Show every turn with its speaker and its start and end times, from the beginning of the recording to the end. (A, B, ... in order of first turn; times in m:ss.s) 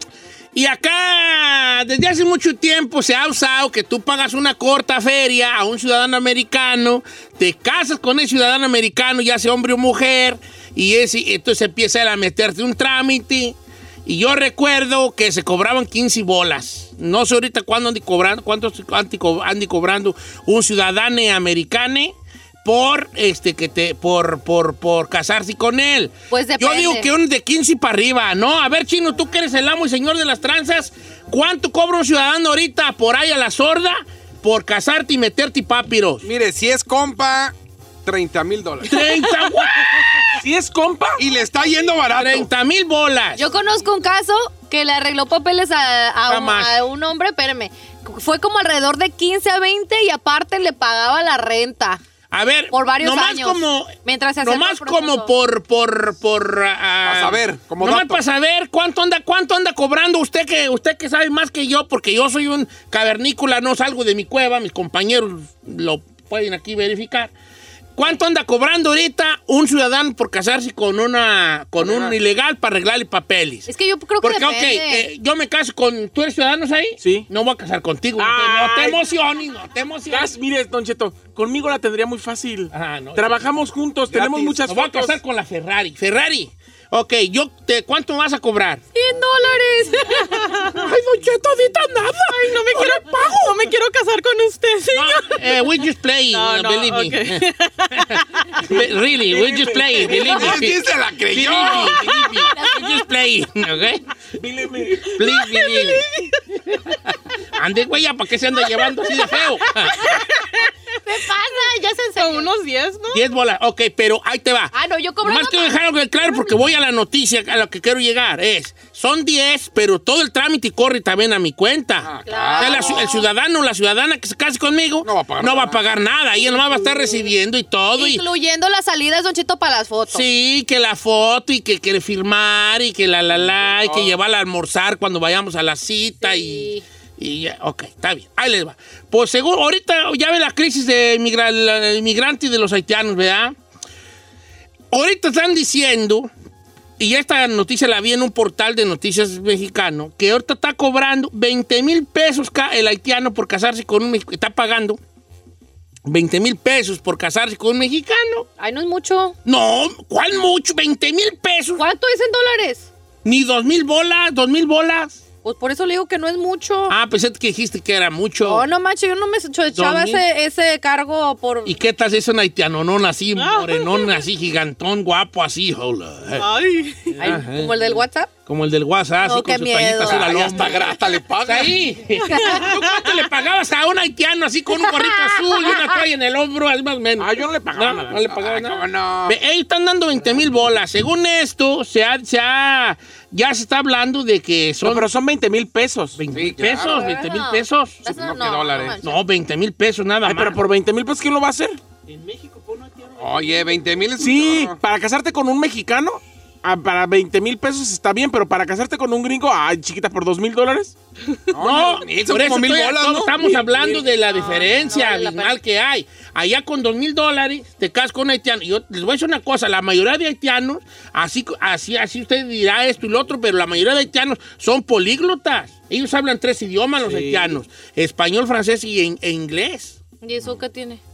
0:00.5-0:36.2 A
0:26.3-0:27.1 B
0:36.2-0:39.1 C
0:38.8-0:40.4 A
0:40.3-0:41.2 D
0:41.2-0:42.5 C
0:42.1-0:43.5 A
0:43.4-0:52.0 B
0:46.3-0:46.8 A
0:52.3-1:07.3 A
0:52.7-0:55.3 B
0:57.0-0:58.2 C
1:08.0-1:13.7 A
1:13.7-1:15.1 B
1:14.2-1:20.3 A
1:17.0-1:17.3 D
1:18.2-1:19.0 D
1:20.1-1:25.2 D
1:22.7-1:23.4 A
1:24.1-1:24.6 C
1:24.6-1:28.8 A
1:28.9-1:30.5 B
1:30.2-1:30.8 E
1:30.7-1:33.5 A
1:32.2-1:35.5 E
1:34.9-1:44.0 A
1:36.3-1:38.6 E
1:38.6-1:40.6 D
1:40.2-1:42.2 C
1:41.8-1:42.9 E
1:44.4-1:45.2 D
1:45.1-1:46.1 A
1:45.2-1:46.4 E
1:47.5-1:50.2 A
1:48.7-1:50.7 E
1:51.0-1:52.5 B
1:52.2-1:53.3 E
1:53.1-2:08.2 A
1:54.7-1:56.5 B
2:02.0-2:03.1 C
2:02.3-2:03.3 B
2:05.0-2:05.8 C
2:08.0-2:10.2 B
2:10.1-2:23.6 A
2:13.8-2:14.1 C
2:16.2-2:16.8 B
2:24.9-2:26.3 A
2:27.0-2:35.0 A
2:36.1-2:38.5 A
2:38.6-2:39.4 B
2:39.4-2:41.8 A
2:41.8-2:42.9 B
2:43.2-2:45.2 A
2:45.4-2:47.0 B
2:46.9-2:48.6 A
2:48.4-2:51.8 B
2:49.8-2:50.2 A
2:51.6-2:56.6 A
2:53.4-2:54.2 E
2:56.4-2:57.2 E
2:57.2-3:15.1 A
2:57.2-2:58.3 B
2:59.2-3:00.6 B
3:00.1-3:01.8 C
3:02.3-3:02.6 B
3:04.8-3:05.8 B
3:07.2-3:08.3 D
3:08.2-3:09.4 C
3:14.8-3:16.2 D
3:16.2-3:18.0 A
3:16.3-3:17.1 C
3:16.8-3:19.2 B
3:18.0-3:19.0 C
3:19.0-3:20.6 A
3:20.2-3:23.1 D
3:23.2-3:24.8 C
3:24.2-3:30.9 D
3:31.5-3:33.7 C
3:31.6-3:50.0 A
3:33.4-3:34.0 D
3:34.1-3:35.6 B
3:47.0-3:47.6 D
3:50.2-3:51.0 B